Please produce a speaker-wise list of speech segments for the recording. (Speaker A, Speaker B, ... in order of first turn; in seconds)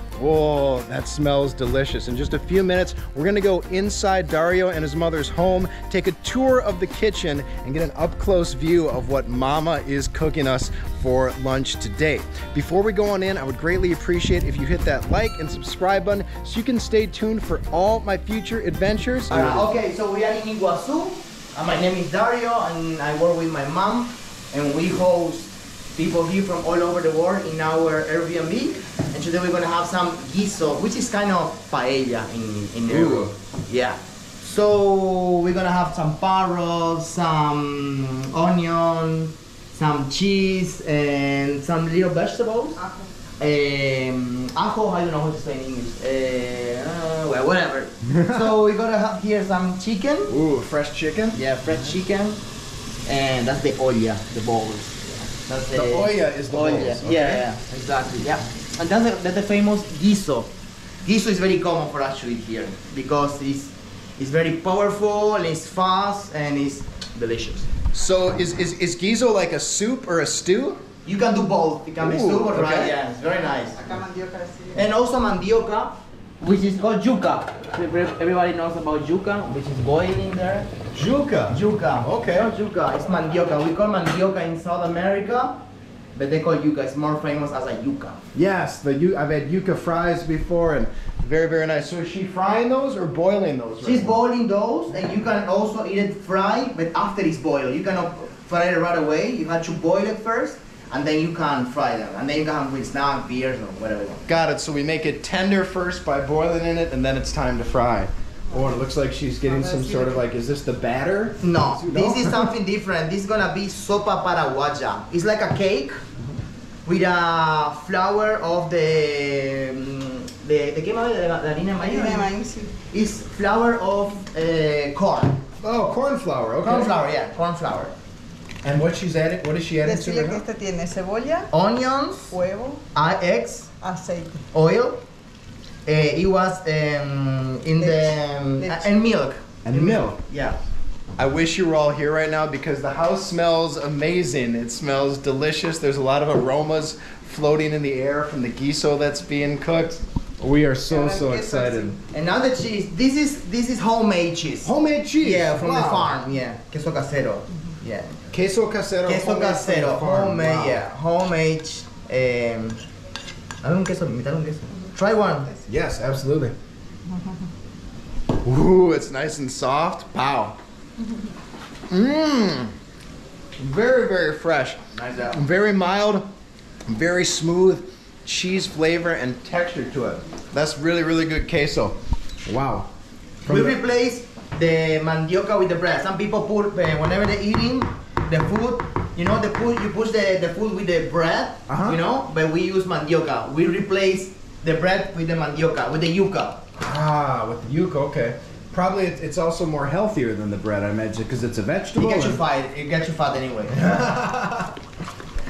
Speaker A: 0.2-19.7, 32.9-33.3, 48.0-48.5, 50.3-51.4, 55.7-57.4, 67.9-70.8, 72.0-72.9, 80.9-82.5, 88.3-94.1, 104.2-112.5, 125.6-126.9, 128.6-130.4, 139.6-140.2, 141.2-151.9, 154.6-156.1, 158.3-160.8, 165.7-166.5, 168.4-170.6, 171.9-172.7, 173.6-174.8, 175.3-176.3, 176.8-182.9, 183.4-183.8, 191.7-192.0, 196.8-202.4, 203.7-204.8
Speaker B: 19.3-42.8, 43.4-50.3, 51.3-52.4, 53.0-60.5, 61.0-67.7, 71.0-73.8, 74.7-80.7, 81.5-85.6, 86.2-88.2, 93.8-104.3, 111.4-116.0, 116.8-122.3, 122.9-125.4, 126.6-127.9, 131.5-132.3, 132.9-133.7, 134.5-135.0, 135.8-140.6, 152.1-158.2, 159.0-162.8, 163.6-165.5, 174.9-175.4, 183.5-196.6, 202.0-204.1
Speaker C: 42.8-43.1, 73.6-74.9, 109.5-110.2, 121.8-122.7, 129.8-131.5, 132.3-132.8, 133.8-134.4, 137.8-138.9, 150.9-152.0